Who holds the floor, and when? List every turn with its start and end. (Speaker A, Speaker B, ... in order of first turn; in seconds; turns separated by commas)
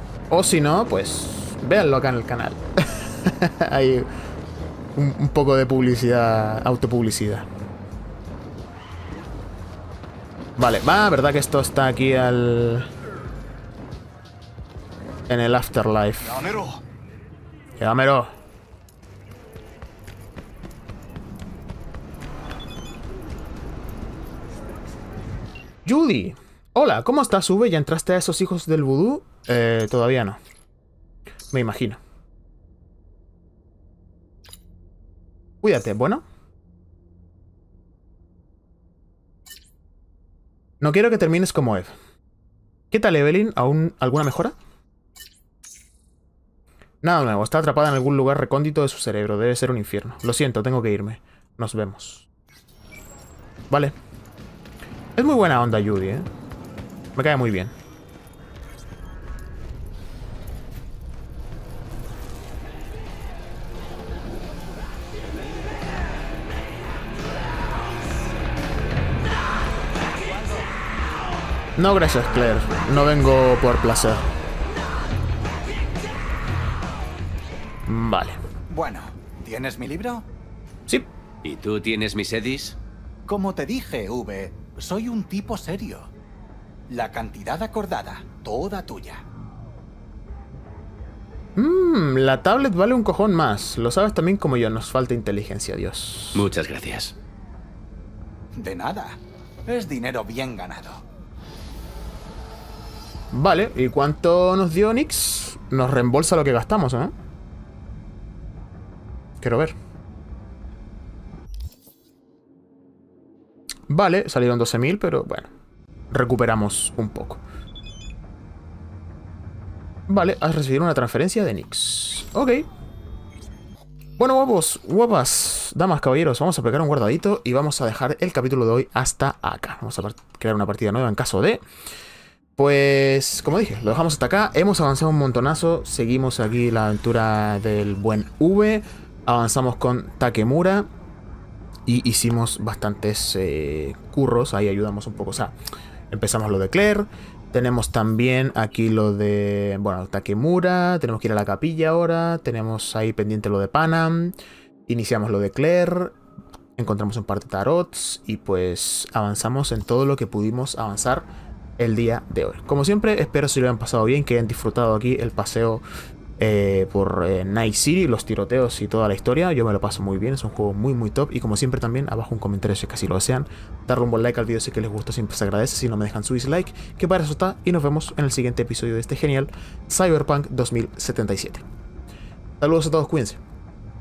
Speaker A: 0.3-4.1, Speaker A: 5.0-7.5, Speaker A: 10.6-12.9, Speaker A: 15.3-16.4, Speaker A: 17.8-18.3, Speaker A: 25.9-30.4, Speaker A: 31.5-32.0, Speaker A: 35.6-36.2, Speaker A: 40.8-41.9, Speaker A: 42.9-44.5, Speaker A: 47.0-52.2, Speaker A: 55.1-56.3, Speaker A: 57.1-57.7, Speaker A: 71.8-74.3, Speaker A: 77.9-78.4, Speaker B: 78.7-80.2, Speaker C: 81.4-82.8, Speaker B: 83.2-86.1, Speaker B: 86.9-89.2, Speaker A: 91.5-96.5, Speaker C: 96.3-97.1, Speaker B: 98.5-101.0, Speaker A: 103.3-107.1, Speaker A: 109.4-109.7, Speaker A: 113.9-115.5, Speaker A: 116.1-117.4, Speaker A: 120.1-122.7, Speaker A: 124.2-131.6, Speaker A: 132.6-140.9, Speaker A: 141.9-145.5, Speaker A: 146.1-154.3, Speaker A: 154.9-156.1, Speaker A: 156.8-161.3, Speaker A: 161.8-165.8, Speaker A: 166.4-181.6, Speaker A: 182.6-183.4